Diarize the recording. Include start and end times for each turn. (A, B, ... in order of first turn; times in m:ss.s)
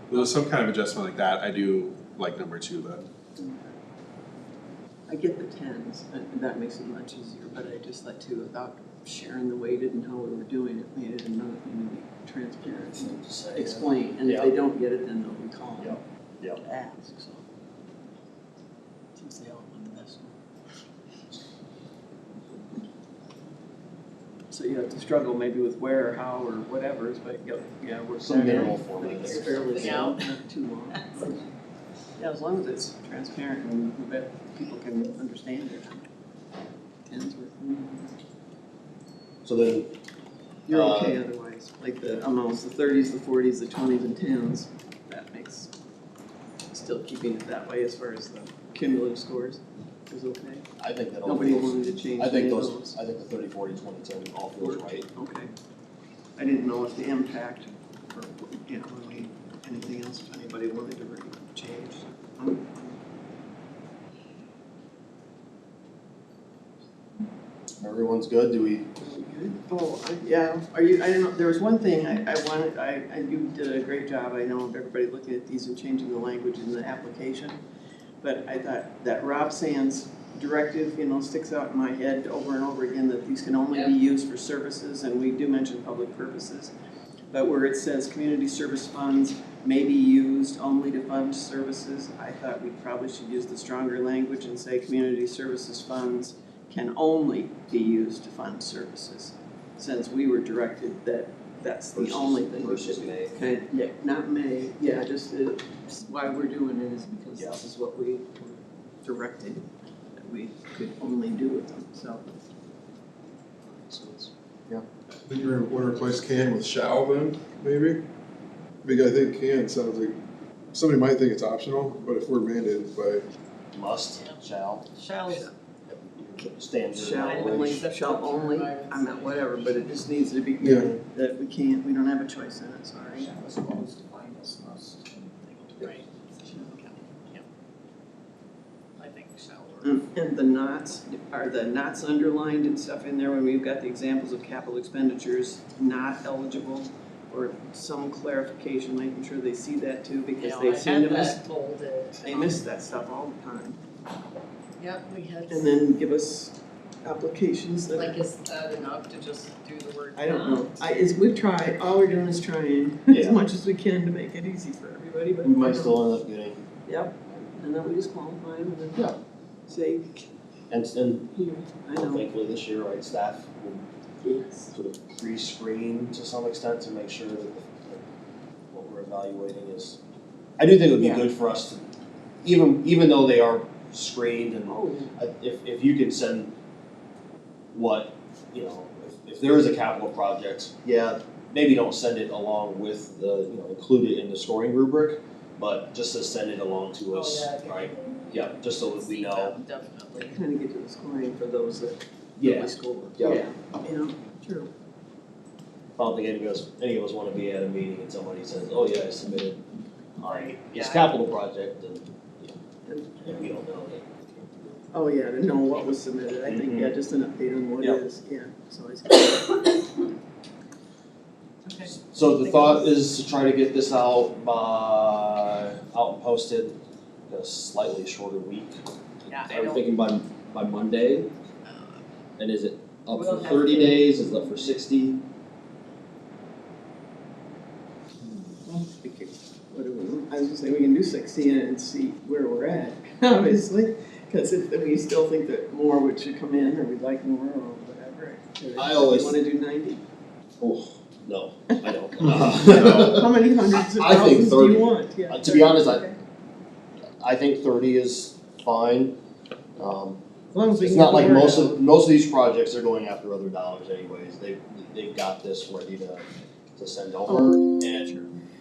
0:00.1-0:02.9 A
0:03.4-0:03.7 B
0:05.1-0:16.0 B
0:12.8-0:14.5 C
0:15.8-0:16.6 C
0:16.6-0:17.4 B
0:19.2-0:20.4 B
0:24.5-0:31.4 B
0:28.2-0:30.2 C
0:29.7-0:30.2 D
0:32.2-0:36.1 B
0:37.0-0:38.2 B
0:39.4-0:39.9 C
0:40.7-0:45.7 B
0:40.7-0:41.2 C
0:46.7-0:50.6 B
0:50.8-0:55.1 C
0:51.2-0:53.0 B
0:54.6-0:55.5 B
0:56.4-1:03.0 B
1:07.8-1:08.9 C
1:09.0-1:17.6 B
1:18.2-1:26.7 B
1:27.3-1:52.2 B
1:41.9-1:43.4 C
1:53.7-1:54.3 E
1:55.2-1:58.0 E
1:58.8-2:00.2 E
2:00.7-2:03.2 E
2:03.7-2:04.8 C
2:04.1-2:04.4 D
2:04.9-2:05.5 D
2:05.3-2:05.5 B
2:05.9-2:07.8 C
2:06.4-2:13.4 B
2:07.2-2:09.8 D
2:10.6-2:10.9 E
2:13.3-2:15.2 E
2:15.4-2:16.8 B
2:15.8-2:17.4 D
2:19.0-2:20.0 D
2:19.8-2:31.4 B
2:30.4-2:32.6 D
2:32.2-2:33.8 B
2:34.8-2:35.8 D
2:35.5-2:38.2 B
2:37.9-2:40.7 D
2:40.1-2:46.0 B
2:43.1-2:43.4 C
2:45.4-2:46.6 C
2:46.8-2:49.1 B
2:47.2-2:47.6 C
2:49.7-2:50.3 B
2:50.7-2:51.3 C
2:51.3-2:52.3 B
2:52.0-2:53.9 C
2:54.2-2:54.7 B
2:54.7-2:58.0 C
2:58.7-3:00.0 C
3:00.6-3:01.8 C
3:01.0-3:01.3 B
3:02.4-3:06.5 C
3:04.7-3:05.1 B
3:07.7-3:19.5 C
3:17.1-3:20.4 D
3:20.1-3:24.7 B
3:22.4-3:23.4 C
3:26.0-3:29.7 C
3:30.2-3:32.6 C
3:30.2-3:31.1 D
3:32.8-3:33.5 B
3:33.2-3:34.8 C
3:34.9-3:39.8 B
3:36.4-3:37.0 C
3:41.7-3:42.7 D
3:41.8-3:48.8 C
3:49.3-3:49.8 D
3:49.4-3:51.3 C
3:51.6-3:52.0 D
3:52.4-3:55.2 C
3:53.1-3:54.7 D
3:58.6-4:10.0 B
4:08.8-4:09.4 C
4:11.2-4:16.1 C
4:11.7-4:16.2 B
4:17.2-4:19.1 C
4:19.8-4:20.2 C
4:20.5-4:21.8 B
4:20.8-4:26.2 C
4:26.8-4:28.1 C
4:27.3-4:28.3 B